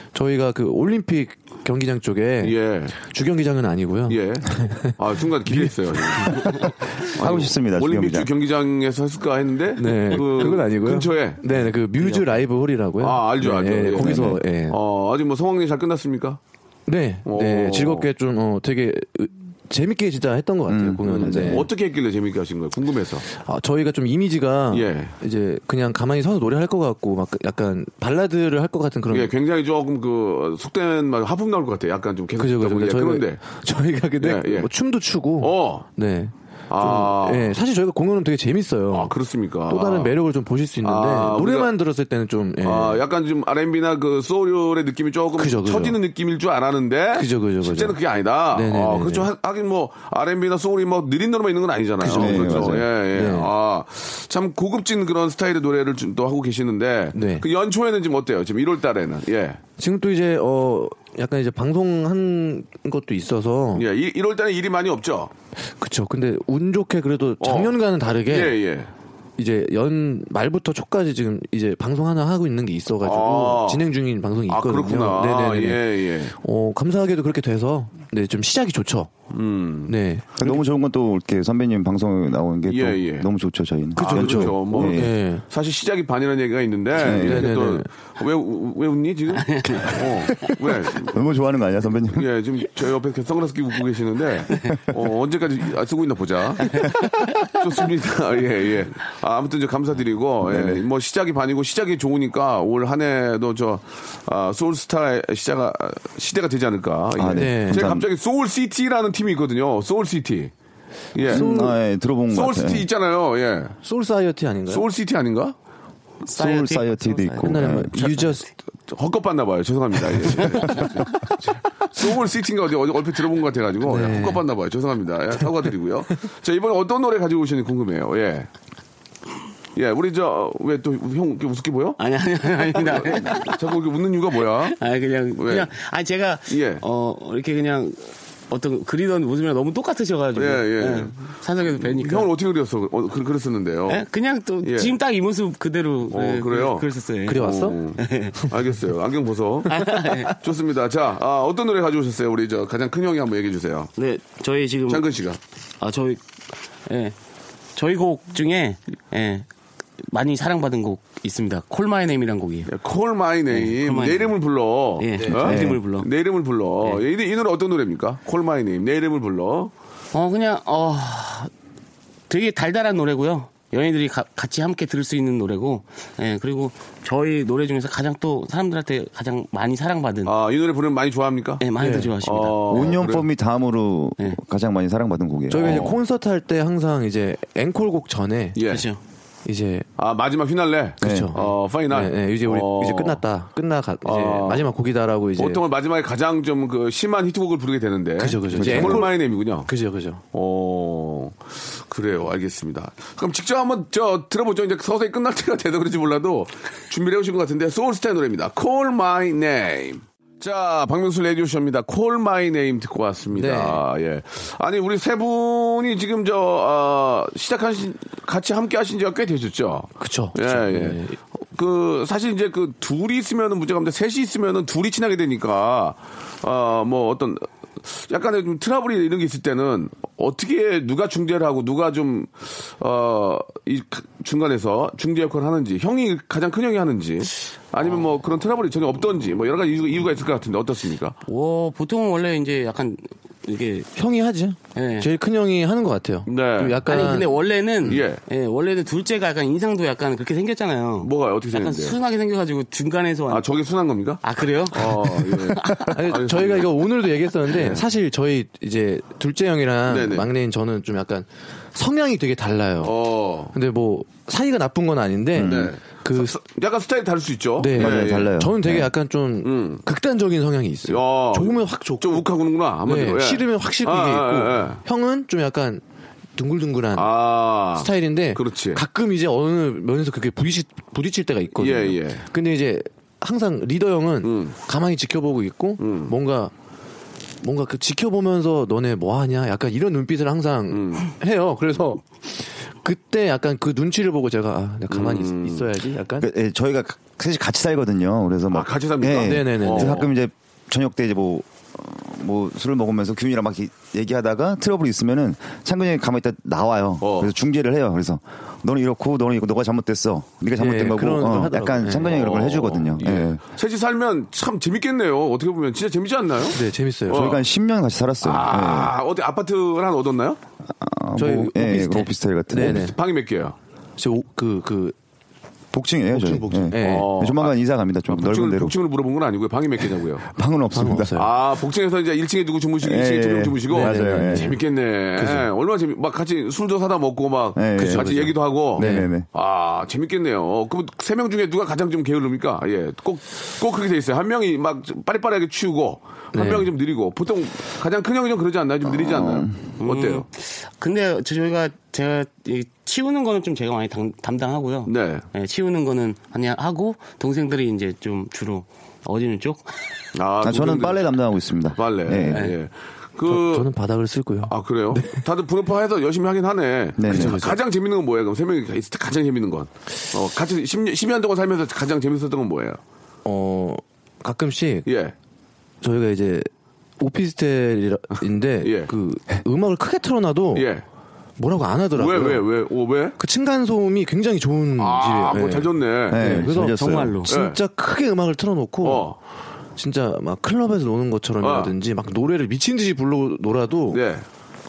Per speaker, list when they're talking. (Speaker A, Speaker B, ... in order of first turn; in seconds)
Speaker A: 0.1-5.0, 5.5-5.7, 9.8-14.8, 16.9-21.7, 23.3-29.3, 32.4-39.1, 39.7-43.0, 45.4-46.0, 47.1-48.0, 48.5-49.3, 52.0-53.5, 57.1-57.5, 59.8-63.9, 65.8-68.6, 69.4-75.8, 76.4-79.1, 79.9-80.6, 84.0-85.4, 87.1-87.9, 107.3-107.8, 111.2-111.8, 113.8-114.8, 117.4-118.5, 123.8-124.4, 147.2-147.8, 181.8-182.1, 185.5-188.6, 189.4-189.9, 191.0-195.6, 198.2-200.2, 213.3-213.8, 220.0-221.2, 243.9-247.3, 255.9-262.9, 263.5-266.4, 267.6-272.3, 272.8-275.8, 276.4-286.5, 287.4-296.3, 299.1-300.1, 310.5-312.6, 316.5-317.4, 321.2-322.9, 324.0-324.9, 326.1-327.1, 330.7-331.3, 333.7-334.6, 335.1-335.5, 337.7-339.1, 346.3-346.7, 363.2-365.2, 367.1-367.6, 373.2-374.9, 375.8-380.7, 381.4-382.5, 383.2-389.1, 389.8-394.0
Speaker B: 2.4-3.0, 4.1-11.4, 13.0-16.4, 17.2-18.1, 21.2-23.2, 24.7-25.1, 29.1-33.4, 34.2-34.7, 35.4-35.9, 36.7-37.5, 38.9-40.1, 40.8-41.7, 42.6-59.6, 63.7-65.3, 67.4-68.9, 73.0-73.9, 74.5-76.3, 79.3-79.9, 82.7-83.3, 84.0-91.2, 92.1-96.9, 97.5-110.5, 111.1-111.6, 112.3-113.7, 114.7-115.5, 118.9-121.1, 121.9-128.5, 129.8-132.0, 132.7-134.8, 135.3-135.7, 136.5-136.8, 140.3-141.1, 141.8-144.0, 144.6-144.9, 146.1-149.7, 150.4-153.9, 154.9-155.4, 162.7-169.7, 180.2-181.6, 182.2-183.2, 185.6-186.0, 188.5-188.9, 190.0-193.2, 194.0-194.7, 195.4-199.7, 200.3-221.0, 221.5-241.2, 246.3-246.9, 247.8-248.2, 251.0-251.9, 253.3-256.8, 257.5-257.8, 259.9-260.3, 262.8-263.5, 265.4-268.3, 269.4-269.8, 270.9-274.8, 276.9-278.8, 281.6-282.2, 284.2-284.6, 285.8-286.1, 290.7-291.1, 294.9-295.7, 298.5-300.1, 307.0-307.3, 312.1-317.4, 318.2-320.4, 322.7-323.6, 326.8-327.6, 328.1-330.2, 331.1-350.2, 354.9-355.2, 360.1-361.1, 361.7-363.7, 364.4-372.8, 374.9-375.1, 378.6-378.9, 380.5-380.8, 381.9-383.2, 384.8-386.4, 387.3-387.6, 388.8-389.1, 391.4-391.7, 393.9-394.2
Speaker C: 6.4-8.3, 13.9-14.4, 20.7-21.7, 52.1-52.9, 80.4-85.1, 87.0-87.5, 91.1-92.3, 100.4-100.8, 107.1-108.1, 111.3-112.9, 116.2-117.9, 165.3-165.8, 182.7-185.9, 191.0-191.3, 198.5-199.1, 265.4-265.7, 267.7-268.9, 296.2-313.4, 317.1-318.9, 320.7-322.9, 325.7-328.7, 330.3-331.2, 332.8-334.6, 337.6-339.3, 348.8-349.6, 360.4-362.4, 367.0-367.4, 386.1-387.2
Speaker D: 10.3-10.6, 12.0-12.2, 89.3-90.5, 96.7-97.4, 116.2-118.4, 120.6-120.9, 132.0-133.6, 134.7-142.3, 143.9-148.4, 149.7-150.4, 154.0-155.0, 155.8-156.2, 156.9-157.2, 157.7-159.4, 160.1-162.7, 163.5-164.4, 165.0-166.1, 170.1-171.5, 172.3-180.3, 181.6-183.0, 188.7-189.0, 241.3-243.9, 244.7-245.1, 246.9-253.5, 254.2-255.9, 349.8-359.7, 362.3-362.6, 386.5-387.3